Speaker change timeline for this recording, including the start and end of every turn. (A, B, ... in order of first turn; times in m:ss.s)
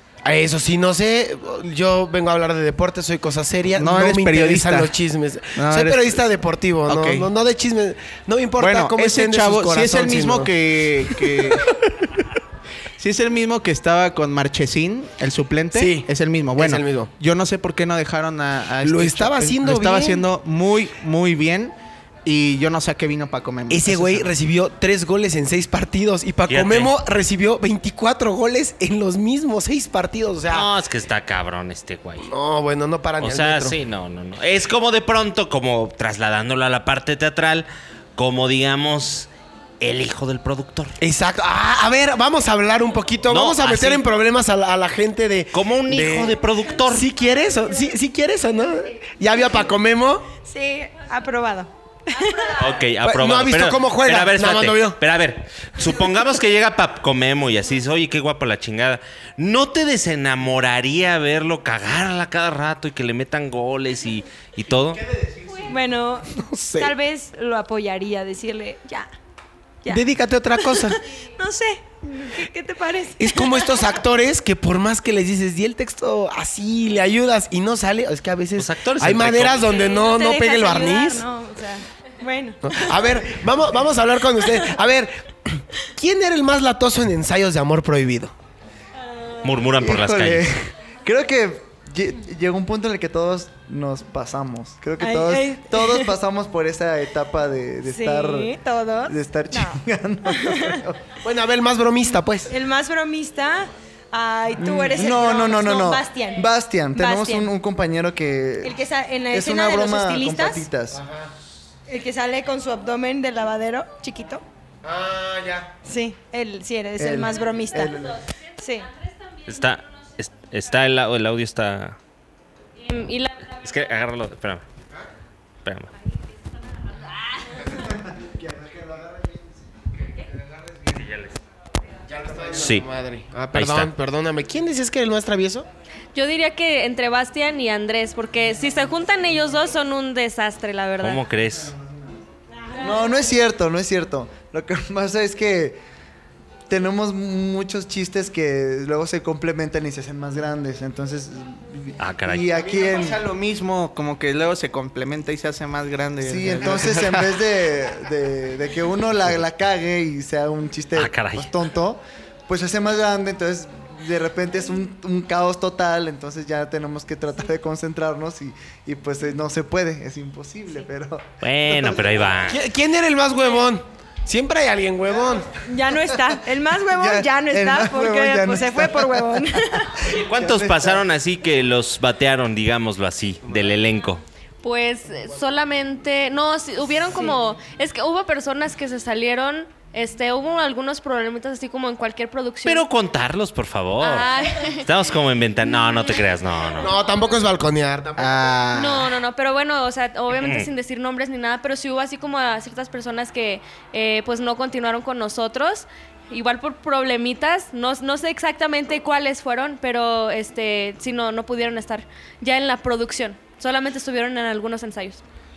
0:00.2-0:10.5 A
0:03.7-0:04.9 B
0:05.5-0:06.2 B
0:06.8-0:07.3 B
0:08.6-0:12.1 B
0:11.1-0:11.6 A
0:13.0-0:21.7 B
0:15.7-0:17.1 A
0:18.8-0:20.2 A
0:22.2-0:24.3 B
0:23.7-0:30.7 A
0:26.5-0:26.9 C
0:30.5-0:32.3 C
0:32.2-0:33.8 A
0:33.2-0:40.9 C
0:41.0-0:50.3 A
0:43.3-0:44.0 C
0:45.5-0:47.1 C
0:50.4-0:52.6 D
0:52.5-1:05.0 C
0:53.0-0:55.0 A
1:04.9-1:05.8 B
1:05.6-1:09.1 D
1:06.3-1:06.9 A
1:09.9-1:11.0 A
1:10.6-1:13.8 D
1:13.2-1:21.2 A
1:18.6-1:19.8 C
1:19.7-1:22.9 D
1:22.6-1:28.3 A
1:29.4-1:30.5 C
1:29.8-1:38.5 E
1:35.0-1:36.1 D
1:37.8-1:40.8 D
1:39.1-1:41.0 E
1:41.2-1:42.5 A
1:42.5-1:47.5 D
1:44.6-1:48.8 E
1:48.6-1:50.7 D
1:49.3-1:51.0 E
1:50.9-1:51.3 A
1:51.9-1:54.4 D
1:54.8-1:55.7 A
1:55.8-1:58.0 D
1:57.0-1:58.2 E
1:58.6-1:58.9 D
1:59.4-2:02.0 C
2:02.8-2:03.5 F
2:03.5-2:04.6 C
2:05.6-2:05.9 C
2:06.9-2:07.7 F
2:07.7-2:09.6 E
2:10.9-2:11.4 C
2:12.1-2:15.7 A
2:12.5-2:12.8 C
2:13.5-2:13.9 C
2:16.1-2:21.2 F
2:21.0-2:21.7 C
2:22.8-2:25.8 E
2:26.7-2:33.2 E
2:32.0-2:32.5 C
2:32.3-2:37.4 B
2:36.2-2:51.3 E
2:41.0-2:41.5 C
2:51.4-2:52.6 C
2:52.5-2:55.5 A
2:55.6-3:00.1 D
2:56.9-2:59.5 E
3:00.0-3:01.0 E
3:00.0-3:04.2 C
3:04.6-3:12.8 F
3:12.6-3:17.0 C
3:14.0-3:14.9 F
3:16.8-3:18.7 A
3:18.2-3:19.1 B
3:18.7-3:35.2 F
3:20.3-3:20.7 C